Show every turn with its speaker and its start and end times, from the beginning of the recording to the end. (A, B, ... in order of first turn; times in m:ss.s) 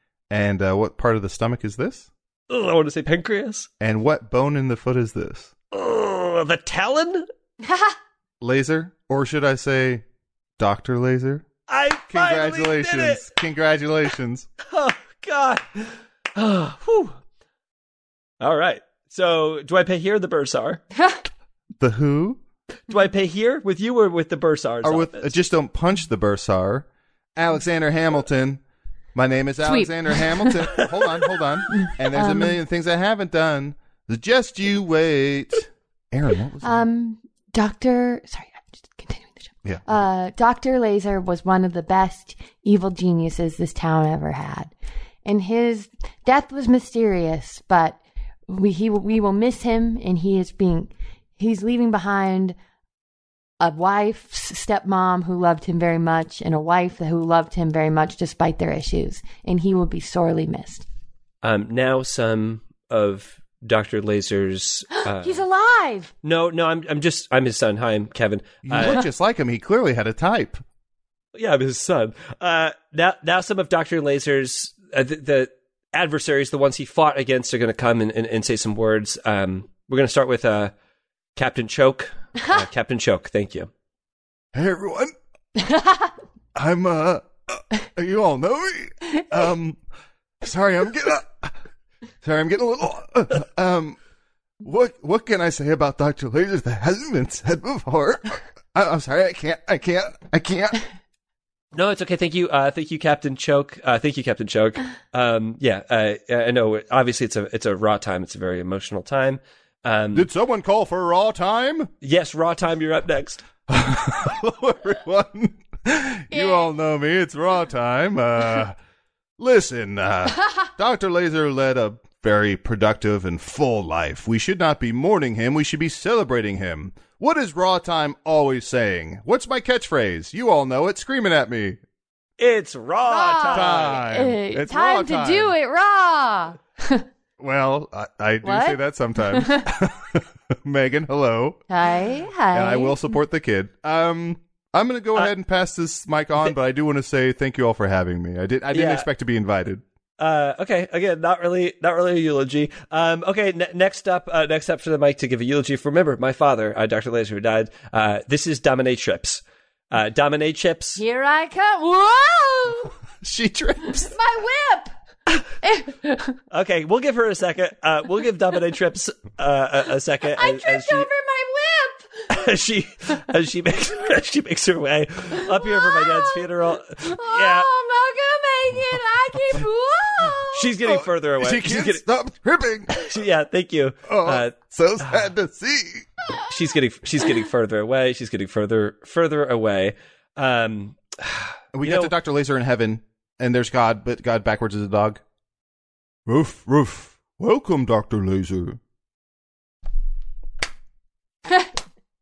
0:00.3-0:02.1 A
0:02.5-0:03.7 B
0:03.8-0:05.5 A
0:05.7-0:07.2 B
0:07.6-0:08.0 C
0:08.4-0:10.0 A
0:10.6-0:11.4 A
0:11.7-0:13.3 B
0:12.1-0:14.5 A
0:14.7-0:17.1 B
0:18.4-0:20.8 B
0:21.8-0:22.4 A
0:22.9-0:25.4 B
0:24.8-0:28.6 A
0:29.1-0:36.8 A
0:29.6-0:30.8 C
0:30.8-0:31.5 B
0:31.7-0:32.6 C
0:36.6-0:44.7 C
0:39.6-0:40.0 A
0:45.2-0:52.6 C
0:53.6-1:00.8 C
1:01.4-1:05.4 B
1:05.0-1:06.1 C
1:06.2-1:09.0 B
1:08.6-1:10.6 A
1:08.8-1:09.0 C
1:11.3-1:20.7 B
1:21.4-1:23.7 B
1:24.5-1:25.1 A
1:25.7-1:26.0 C
1:26.5-1:29.8 A
1:30.4-1:31.5 A
1:32.2-1:34.0 A
1:34.6-1:40.8 A
1:41.7-1:50.3 B
1:50.1-1:51.9 A
1:52.0-1:53.4 B
1:53.7-1:58.7 A
1:56.3-1:56.7 C
1:59.4-2:11.8 A
2:12.4-2:14.0 B
2:13.0-2:17.0 C
2:13.5-2:15.6 A
2:17.4-2:21.6 A
2:18.4-2:19.6 C
2:21.7-2:23.1 C
2:22.5-2:29.8 A
2:28.7-2:29.1 B
2:30.2-2:41.0 B
2:41.0-2:42.9 C
2:43.2-2:44.1 A
2:44.0-2:46.3 C
2:46.5-2:51.1 B
2:50.3-2:52.1 C
2:52.3-2:57.7 B
2:55.5-2:56.4 C
2:57.0-3:00.7 C
3:00.2-3:03.0 A
3:00.5-3:02.0 B
3:02.9-3:05.3 B
3:04.1-3:06.0 A
3:06.5-3:12.1 B
3:11.7-3:15.2 A
3:16.2-3:18.8 A
3:21.5-3:21.7 C